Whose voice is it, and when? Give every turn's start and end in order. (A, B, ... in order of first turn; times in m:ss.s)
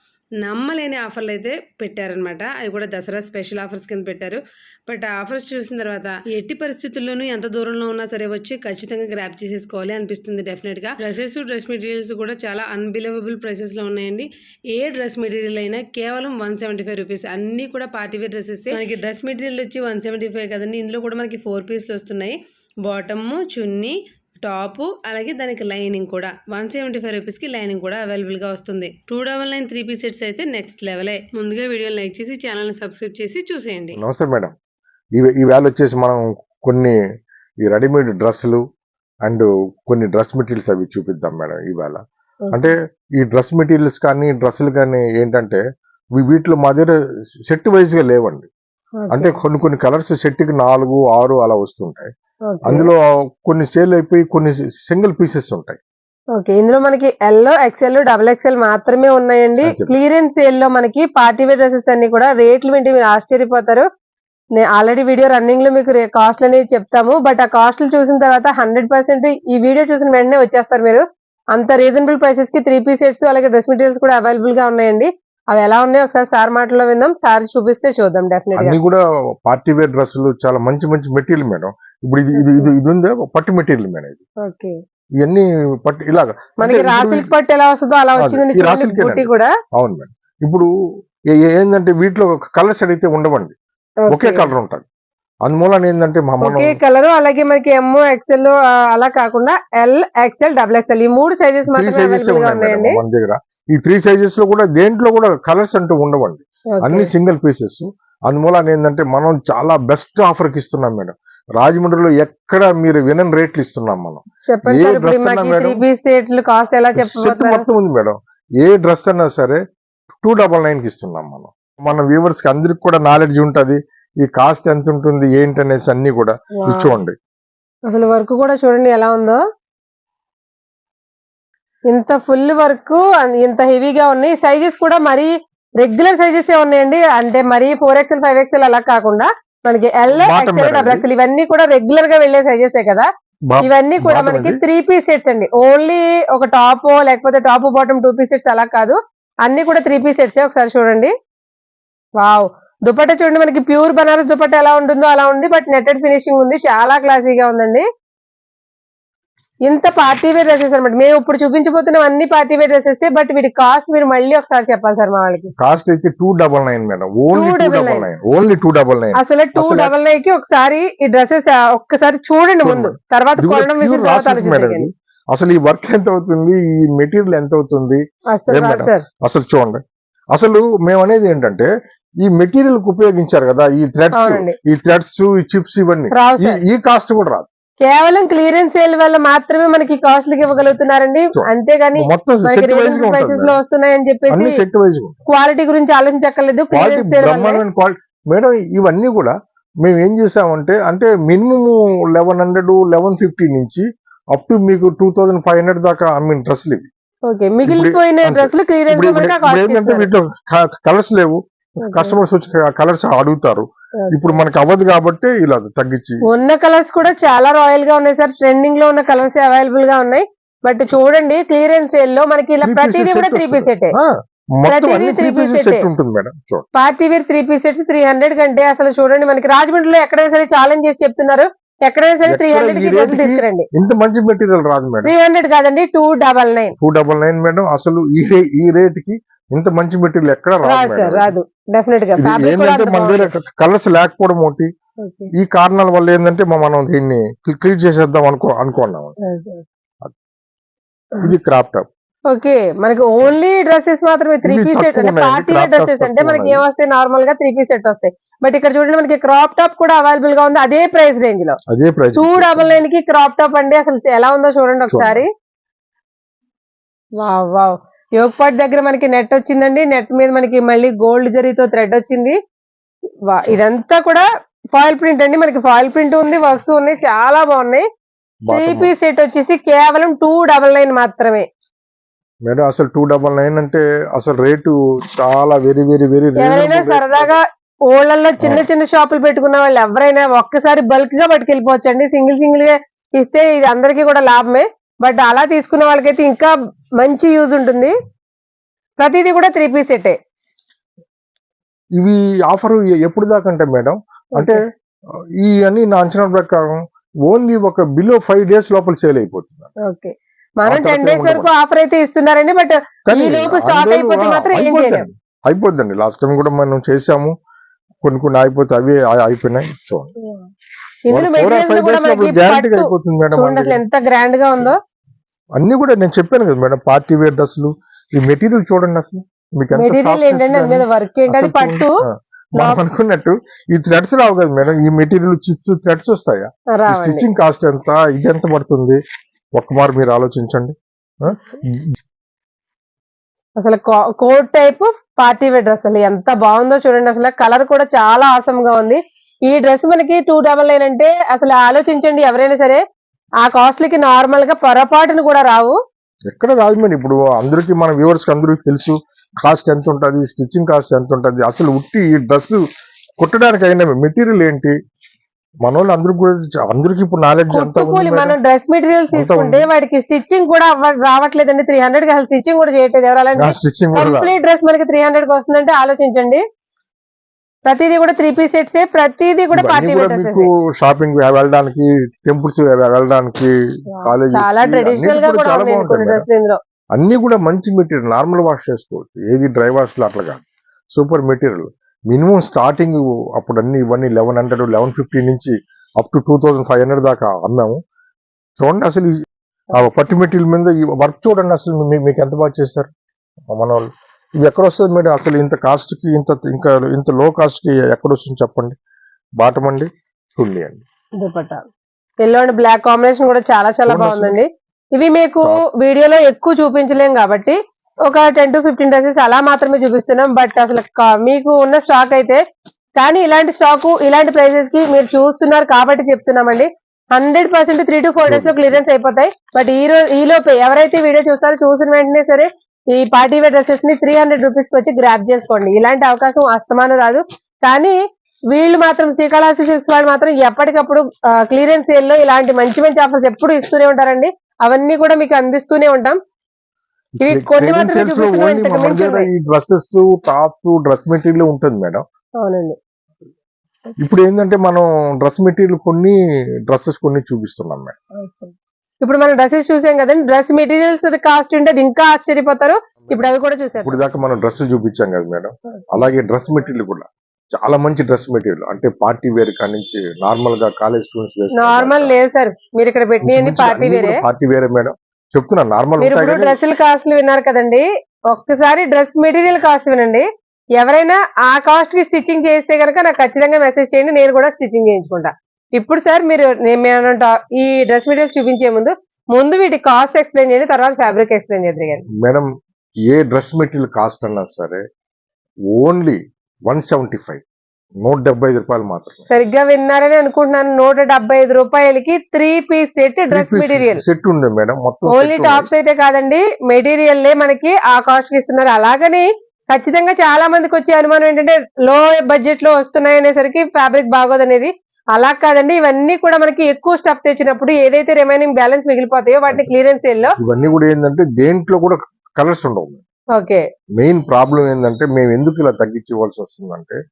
0:00.4-0:34.0 A
0:33.9-0:34.5 B
0:35.2-0:37.0 B
0:37.6-0:38.6 B
0:39.2-0:42.0 B
0:42.5-0:45.6 B
0:46.2-0:48.5 B
0:49.0-0:49.4 C
0:49.1-0:52.1 B
0:52.5-0:52.9 C
0:52.6-0:55.8 B
0:56.4-1:03.8 C
0:59.6-0:59.9 B
1:04.6-1:11.0 C
1:11.5-1:18.8 C
1:18.5-1:24.2 B
1:22.3-1:22.7 C
1:24.4-1:24.7 C
1:25.2-1:27.3 B
1:26.6-1:29.5 C
1:28.2-1:30.7 B
1:31.3-1:33.5 B
1:34.0-1:34.5 C
1:34.1-1:34.8 B
1:35.4-1:36.8 B
1:36.4-1:43.0 C
1:41.7-1:55.8 B
1:46.7-1:47.1 C
1:54.5-1:57.6 C
1:57.0-1:59.6 B
2:00.2-2:07.2 B
2:06.6-2:07.0 C
2:07.9-2:09.4 C
2:11.9-2:23.1 C
2:20.1-2:21.0 B
2:23.5-2:24.6 B
2:23.6-2:31.1 C
2:32.2-2:37.8 C
2:39.6-2:45.5 C
2:45.6-2:49.9 B
2:47.3-2:48.1 C
2:49.2-2:54.9 C
2:52.6-2:59.8 B
2:58.3-2:59.0 C
3:00.3-3:01.7 B
3:02.2-3:07.5 B
3:04.1-3:04.5 C
3:06.1-3:06.6 C
3:07.8-3:14.6 C
3:11.4-3:13.6 B
3:14.3-3:15.2 B
3:15.3-3:17.6 C
3:16.7-3:26.9 B
3:27.3-3:30.1 C
3:27.6-3:36.2 B
3:31.8-3:32.2 C
3:34.0-3:34.4 C
3:36.2-3:43.9 C
3:42.6-3:46.6 B
3:44.6-3:45.9 C
3:46.7-3:53.7 C
3:52.2-3:55.1 B
3:55.0-3:56.7 C
3:56.8-4:01.3 B
4:00.6-4:03.3 C
4:02.2-4:04.7 B
4:05.0-4:05.3 C
4:05.4-4:09.1 B
4:09.2-4:09.6 C
4:11.2-4:11.8 B
4:12.3-4:21.6 C
4:14.4-4:16.6 B
4:21.7-4:22.7 B
4:22.1-4:25.3 C
4:24.9-4:25.2 B
4:27.2-4:32.4 C
4:33.3-4:37.8 C
4:38.5-4:38.9 B
4:38.5-4:41.4 C
4:42.4-4:47.4 B
4:46.4-4:57.9 C
4:48.4-4:48.7 B
4:59.0-5:00.2 C
5:02.0-5:04.6 B
5:05.4-5:09.7 B
5:09.9-5:15.1 C
5:10.6-5:11.5 B
5:13.0-5:17.3 B
5:18.0-5:20.1 B
5:21.1-5:24.8 C
5:21.1-5:23.8 B
5:25.6-5:39.0 B
5:29.7-5:32.0 C
5:32.6-5:32.8 C
5:36.8-5:37.3 C
5:39.5-5:41.8 B
5:43.6-5:52.8 C
5:53.4-5:55.8 C
5:56.3-6:02.6 B
6:03.2-6:04.7 B
6:05.6-6:08.4 B
6:07.5-6:16.4 C
6:09.1-6:09.7 B
6:13.4-6:14.3 B
6:17.7-6:20.5 C
6:19.5-6:26.2 B
6:24.0-6:26.6 C
6:27.0-6:30.4 B
6:30.9-6:37.8 B
6:38.6-6:39.2 B
6:39.7-6:42.9 B
6:43.5-6:43.9 B
6:44.4-6:48.7 B
6:49.4-6:50.8 B
6:51.2-6:51.6 C
6:52.2-7:02.4 C
6:53.8-6:54.4 B
7:03.0-7:18.0 C
7:08.2-7:08.8 B
7:18.5-7:26.2 C
7:27.2-7:29.3 C
7:27.2-7:32.0 B
7:32.4-7:32.8 C
7:34.0-7:36.2 B
7:36.7-7:38.0 B
7:38.2-7:44.0 C
7:43.8-7:52.1 B
7:51.6-7:54.2 C
7:53.2-7:56.6 B
7:56.0-8:00.2 C
8:00.8-8:12.0 C
8:12.2-8:12.5 B
8:13.1-8:14.8 B
8:15.7-8:17.4 B
8:18.0-8:19.3 B
8:19.3-8:24.0 C
8:23.3-8:25.7 B
8:25.1-8:40.3 C
8:40.4-8:43.0 B
8:43.3-8:43.6 C
8:44.0-8:47.0 B